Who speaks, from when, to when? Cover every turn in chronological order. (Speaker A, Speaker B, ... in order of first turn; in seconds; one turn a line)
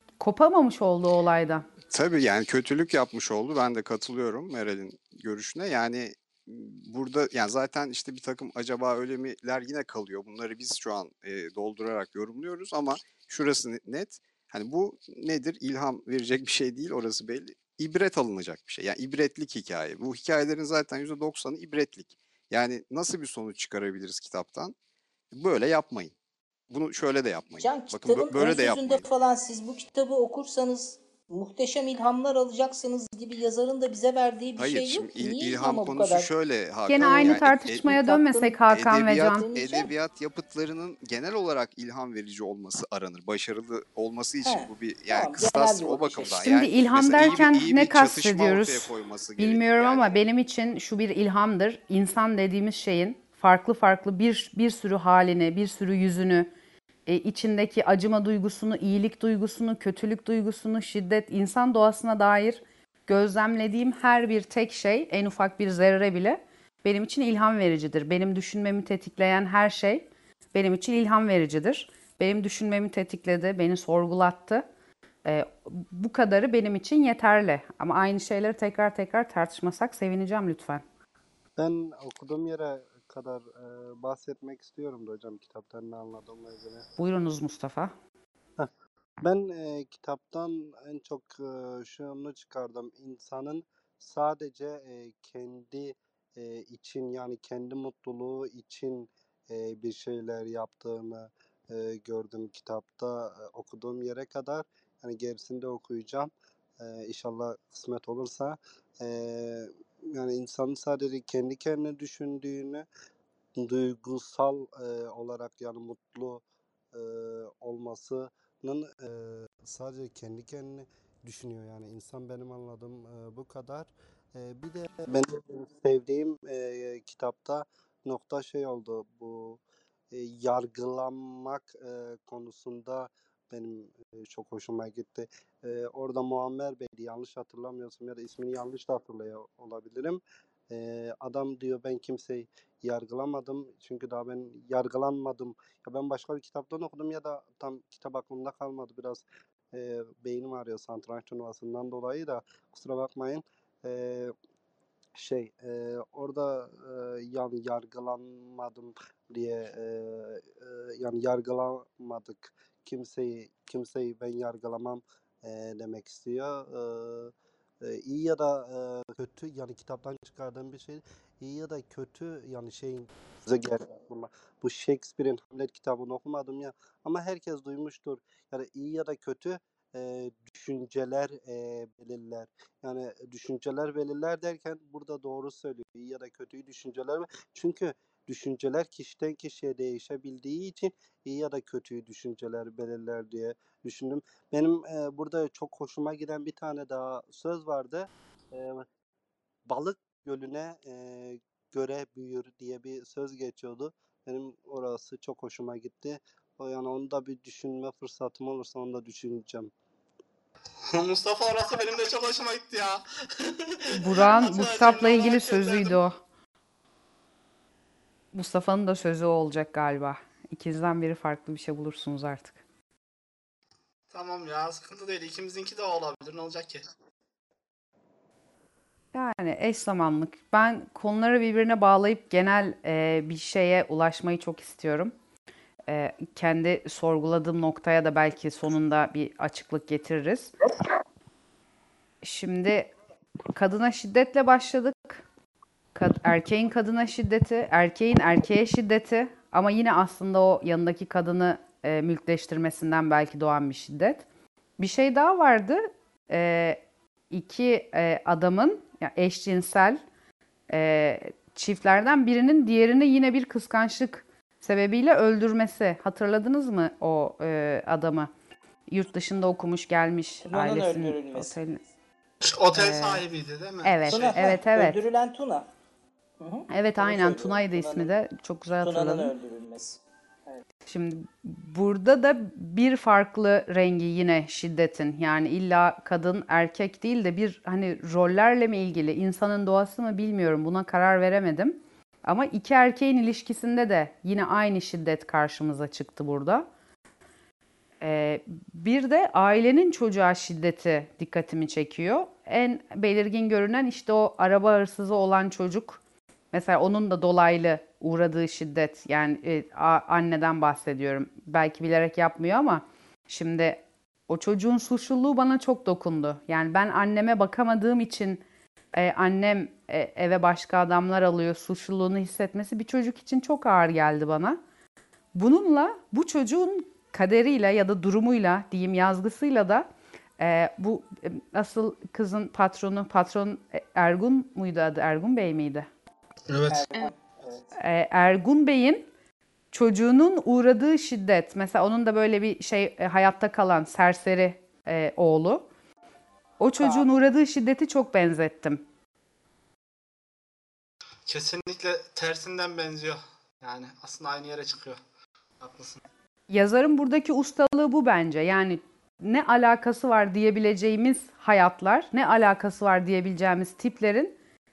Speaker A: 0.2-1.7
Speaker B: 1.9-24.7
Speaker B: 25.3-26.1
Speaker B: 26.7-29.1
Speaker C: 27.6-36.3
Speaker B: 34.6-38.0
Speaker A: 36.9-39.5
Speaker C: 37.0-38.6
Speaker B: 38.7-50.2
Speaker C: 39.3-39.9
Speaker C: 44.4-46.5
Speaker A: 46.4-56.5
Speaker A: 57.1-74.6
Speaker A: 75.2-80.8
Speaker D: 81.6-86.9
Speaker A: 87.0-87.9
Speaker D: 89.2-112.9
Speaker D: 113.6-154.3
Speaker D: 155.2-198.9
Speaker D: 199.7-209.7
Speaker E: 210.9-216.0
Speaker A: 213.9-216.2
Speaker A: 218.3-222.6
Speaker E: 224.1-226.9
Speaker A: 229.1-235.1
Speaker A: 235.9-240.5
Speaker A: 242.2-242.9
Speaker A: 243.5-245.3
Speaker A: 245.9-254.2
Speaker A: 254.8-260.0
Speaker A: 260.7-268.3
Speaker A: 268.9-271.8
Speaker C: 270.4-271.5
Speaker E: 272.4-274.4
Speaker A: 272.7-273.2
Speaker A: 273.8-275.0
Speaker C: 274.1-275.7
Speaker C: 276.4-278.1
Speaker A: 276.7-279.3
Speaker C: 278.8-280.6
Speaker A: 280.9-296.6
Speaker A: 298.0-306.0
Speaker A: 306.5-318.4
Speaker A: 318.9-324.6
Speaker A: 325.3-329.9
Speaker A: 330.4-335.9
Speaker E: 336.5-336.9
Speaker C: 336.7-337.7
Speaker A: 337.8-339.1
Speaker A: 339.7-345.7
Speaker A: 346.6-348.8
Speaker C: 346.8-347.1
Speaker E: 351.3-355.0
Speaker E: 355.6-356.0
Speaker A: 356.5-364.3